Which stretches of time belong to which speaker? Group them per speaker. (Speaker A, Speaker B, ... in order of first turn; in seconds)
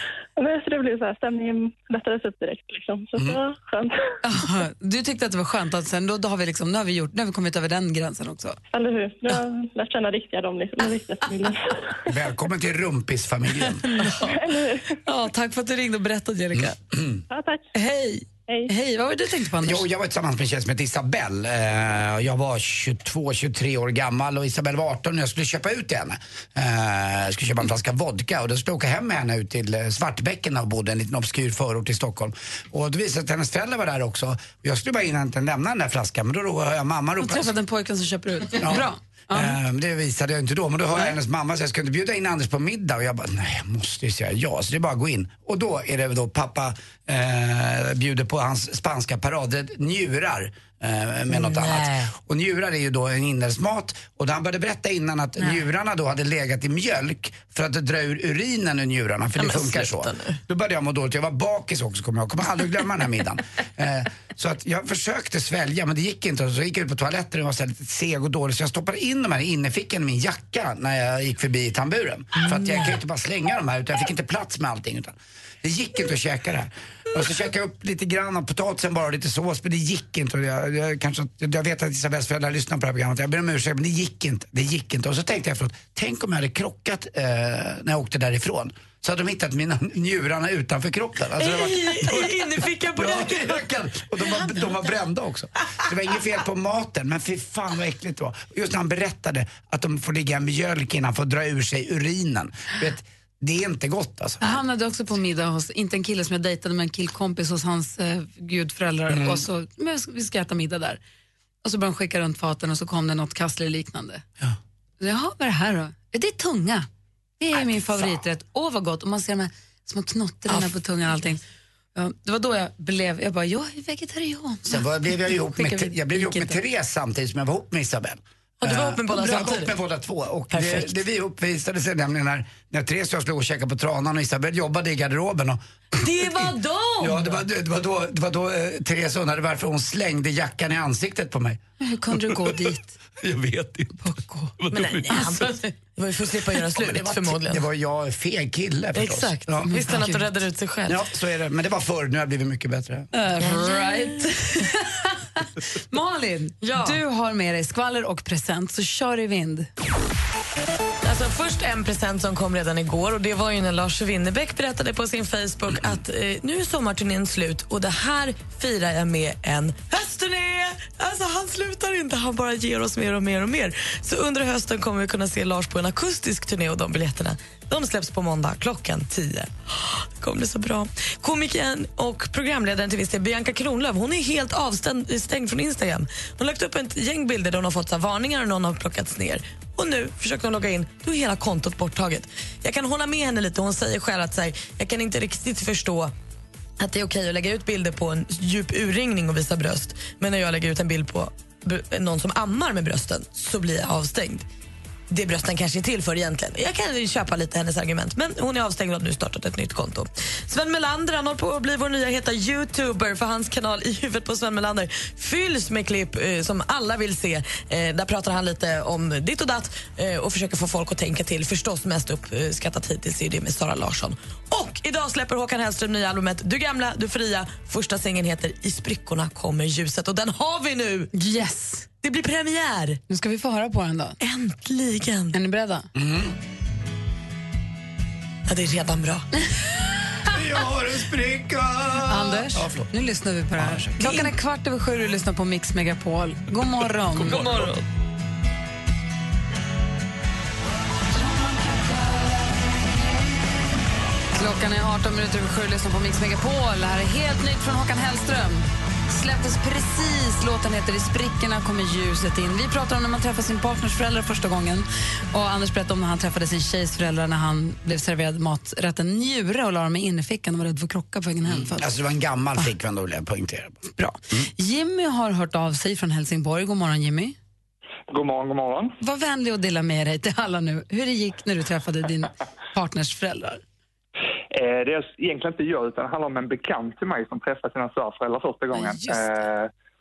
Speaker A: 0.4-4.0, 8.7-12.0, 14.1-14.9, 17.3-17.7
Speaker B: 4.2-8.6, 13.9-14.4, 15.0-16.8, 17.7-19.9, 37.2-39.6, 104.4-111.0, 111.6-114.2, 115.0-116.9, 117.4-121.4, 121.9-124.8, 125.5-126.5, 141.8-143.0, 144.0-144.5, 145.1-145.4, 149.7-150.3, 153.1-159.7, 231.1-231.9, 233.1-234.2, 235.3-235.9, 242.0-247.5, 254.3-271.9, 273.9-277.4, 279.0-283.6, 288.7-289.3
Speaker C: 12.1-13.8, 16.6-17.2, 19.6-37.5, 38.5-104.6, 109.1-109.4, 124.7-135.6, 137.0-141.6, 143.2-144.0, 144.7-145.3, 146.7-149.7, 150.8-153.1, 235.9-236.3, 240.3-242.9, 243.6-243.9, 271.4-274.5
Speaker D: 51.3-52.1, 59.4-60.4, 72.3-73.0, 91.4-93.6, 128.6-129.7, 130.5-131.0, 135.9-137.4, 144.7-147.7, 148.9-151.0, 153.4-154.3, 156.6-157.0, 161.0-196.1, 196.8-204.4, 205.1-231.1, 232.0-233.0, 234.2-235.3, 238.5-239.3, 244.0-244.3, 247.2-247.8
Speaker E: 278.1-279.0, 284.5-289.7